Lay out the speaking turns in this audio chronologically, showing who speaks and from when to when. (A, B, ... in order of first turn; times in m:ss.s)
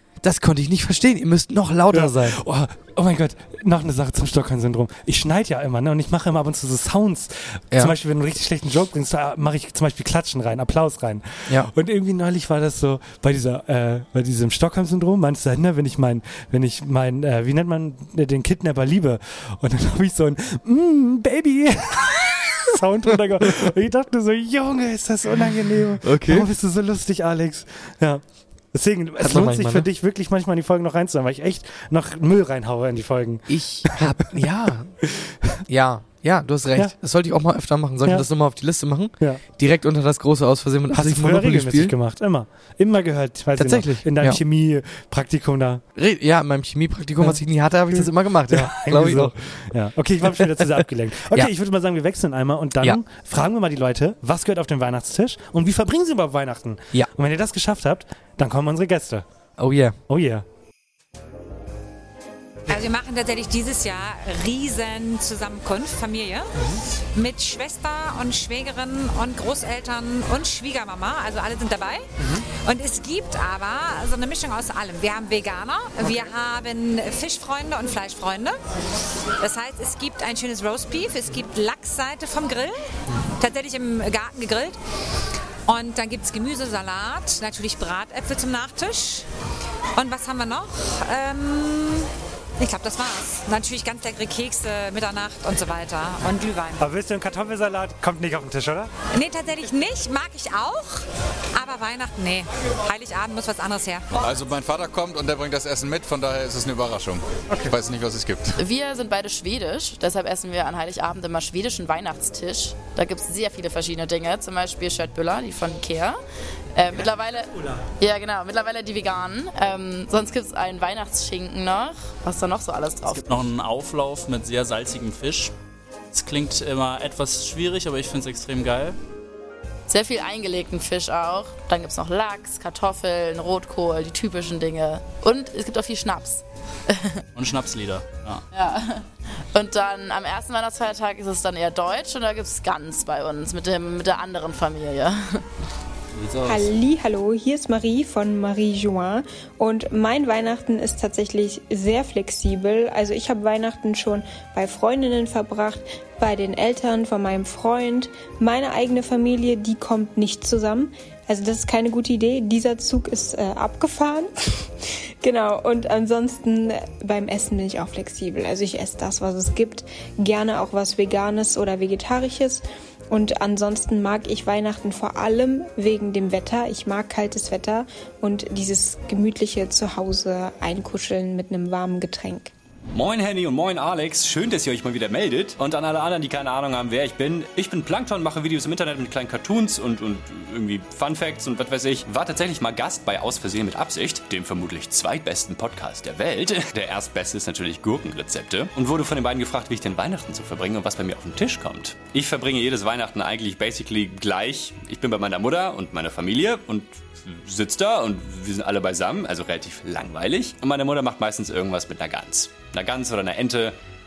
0:00.2-0:02.4 A
0:01.9-0:34.1 B
0:26.0-0:26.5 A
0:29.2-0:29.9 A
0:33.5-0:34.9 A
0:35.0-0:35.6 B
0:35.7-0:41.9 A
0:40.9-0:45.8 B
0:43.6-0:44.4 A
0:45.9-0:49.4 A
0:47.2-0:59.2 B
0:59.6-1:00.0 A
1:00.1-1:00.4 B
1:02.7-1:06.5 C
1:07.1-1:12.1 C
1:12.6-1:18.6 C
1:19.4-1:22.8 C
1:23.4-1:24.8 C
1:25.7-1:29.2 C
1:29.9-1:36.8 C
1:36.8-1:38.9 B
1:39.1-1:44.2 C
1:44.2-1:48.6 D
1:48.6-1:56.2 E
1:56.7-2:03.2 E
2:03.2-2:05.5 F
2:06.1-2:09.0 F
2:09.9-2:17.2 E
2:17.3-2:18.4 F
2:18.5-2:25.4 E
2:26.1-2:26.7 F
2:26.4-2:44.3 G
2:45.2-3:02.5 G
3:02.9-3:33.7 H